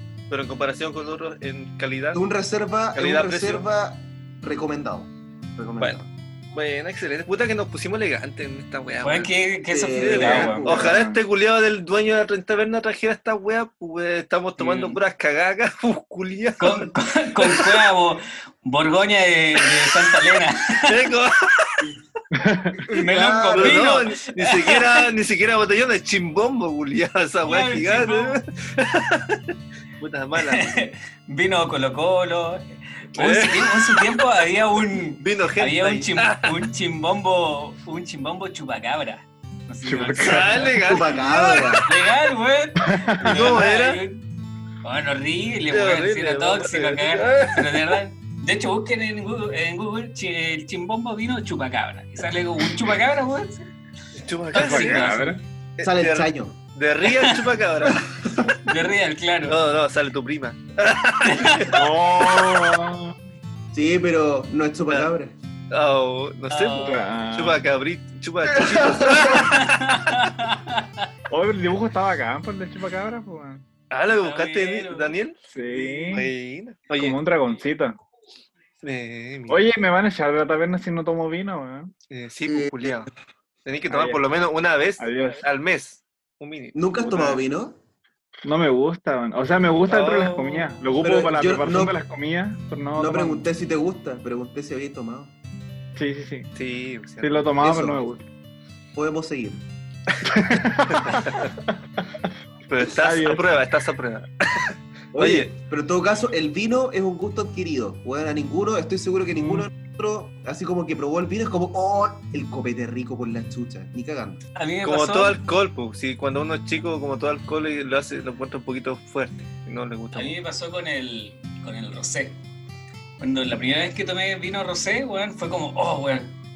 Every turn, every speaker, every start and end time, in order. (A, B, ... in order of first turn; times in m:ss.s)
0:00.3-0:02.2 A
0:02.1-0:06.1 B
0:02.9-0:03.6 A
0:06.5-0:09.3 A
0:09.0-0:10.7 C
0:09.7-0:11.0 B
0:09.9-0:16.9 A
0:10.7-0:11.2 D
0:14.6-0:15.0 C
0:16.6-0:21.0 C
0:17.4-0:17.8 A
0:20.9-0:21.9 A
0:22.3-0:22.8 D
0:22.8-0:23.9 B
0:22.9-0:25.0 C
0:23.5-0:29.4 A
0:27.4-0:28.4 C
0:30.0-0:30.8 A
0:30.4-0:40.8 C
0:33.2-0:34.1 A
0:35.2-0:36.6 A
0:39.8-0:40.8 D
0:40.2-0:41.8 A
0:40.8-0:41.9 B
0:41.8-0:44.2 C
0:42.9-0:43.4 D
0:43.2-0:44.0 A
0:44.8-0:53.7 C
0:45.7-0:48.0 A
0:54.1-0:55.2 A
0:54.5-0:55.4 C
0:54.5-0:55.4 D
0:55.8-0:58.1 A
0:55.8-0:56.6 B
0:57.1-0:57.4 C
0:57.9-0:58.5 B
0:58.6-0:59.6 C
0:59.5-1:01.8 A
1:01.2-1:01.7 C
1:01.7-1:03.2 D
1:03.7-1:05.3 B
1:05.7-1:09.8 A
1:06.5-1:07.1 C
1:06.8-1:07.6 D
1:08.6-1:09.4 B
1:09.3-1:11.0 C
1:11.3-1:13.6 D
1:13.9-1:17.2 A
1:14.2-1:15.1 C
1:15.5-1:16.3 D
1:17.0-1:18.0 D
1:18.8-1:19.6 A
1:19.5-1:21.9 D
1:22.1-1:23.1 A
1:22.5-1:23.1 B
1:23.6-1:27.3 A
1:23.9-1:24.2 D
1:25.0-1:25.4 D
1:26.7-1:27.8 B
1:27.1-1:27.4 D
1:28.4-1:33.4 D
1:29.9-1:30.9 A
1:31.0-1:32.0 B
1:33.0-1:35.3 B
1:36.0-1:36.5 D
1:36.6-1:37.5 A
1:37.2-1:38.2 D
1:37.6-1:38.0 B
1:38.9-1:39.6 B
1:40.2-1:41.5 D
1:40.9-1:41.5 A
1:42.7-1:45.5 A
1:43.0-1:43.4 D
1:45.1-1:54.4 B
1:49.4-1:49.7 D
1:54.6-1:55.4 C
1:54.8-2:00.3 A
2:00.1-2:02.4 C
2:03.2-2:06.3 C